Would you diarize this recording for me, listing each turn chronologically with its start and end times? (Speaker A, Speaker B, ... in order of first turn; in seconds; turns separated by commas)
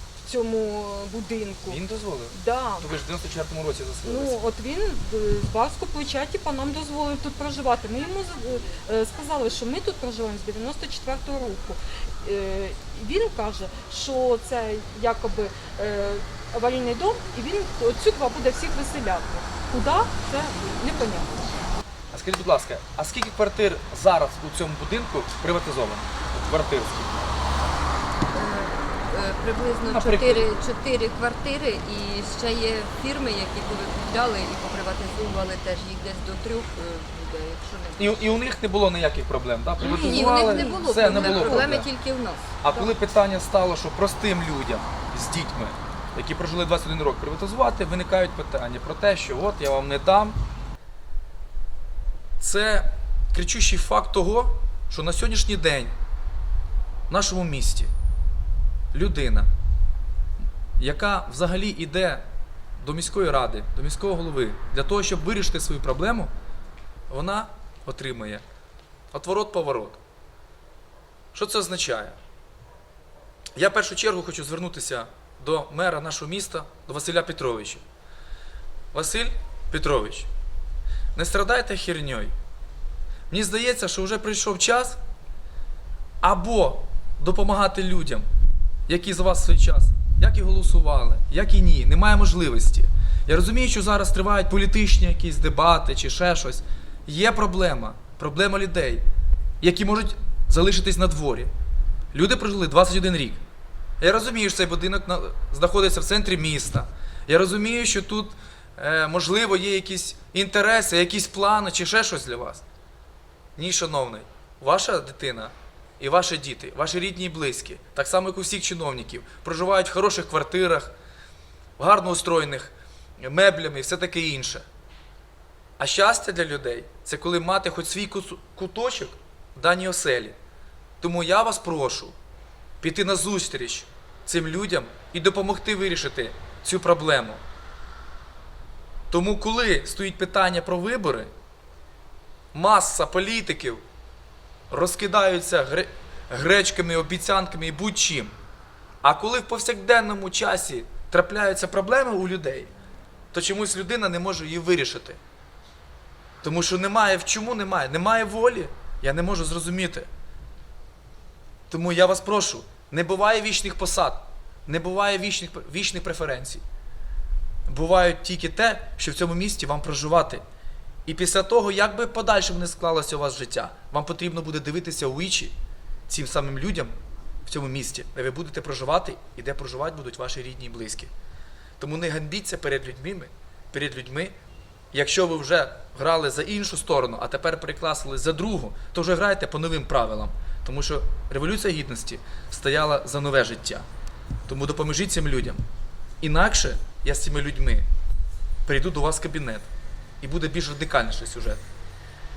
Speaker A: 0.2-1.8, Speaker B: 1.7-4.4, Speaker A: 2.3-2.9, Speaker A: 4.0-21.5, Speaker B: 22.1-27.3, Speaker C: 28.3-38.4, Speaker B: 29.8-30.5, Speaker B: 38.0-41.9, Speaker C: 39.8-42.9, Speaker A: 39.9-41.6, Speaker B: 42.6-50.4, Speaker B: 52.4-55.9, Speaker B: 57.1-57.9, Speaker B: 58.9-59.5, Speaker B: 60.8-62.2, Speaker B: 62.8-66.3, Speaker B: 67.1-68.4, Speaker B: 69.1-70.0, Speaker B: 71.3-72.2, Speaker B: 73.5-77.8, Speaker B: 78.9-80.3, Speaker B: 81.1-82.3, Speaker B: 83.3-85.0, Speaker B: 86.2-88.3, Speaker B: 88.9-99.0, Speaker B: 99.6-101.5, Speaker B: 102.1-103.4, Speaker B: 104.0-112.6, Speaker B: 113.5-120.9, Speaker B: 121.8-124.7, Speaker B: 125.8-130.4, Speaker B: 131.0-132.1, Speaker B: 132.8-137.4, Speaker B: 139.1-141.3, Speaker B: 142.5-143.8, Speaker B: 144.7-148.3, Speaker B: 149.0-152.7, Speaker B: 153.3-155.2, Speaker B: 156.4-160.1, Speaker B: 161.7-166.6, Speaker B: 167.7-170.4, Speaker B: 171.1-175.6, Speaker B: 176.1-181.1, Speaker B: 181.8-184.3, Speaker B: 184.9-193.8, Speaker B: 194.5-195.6, Speaker B: 196.2-197.9, Speaker B: 198.7-199.7, Speaker B: 200.2-201.6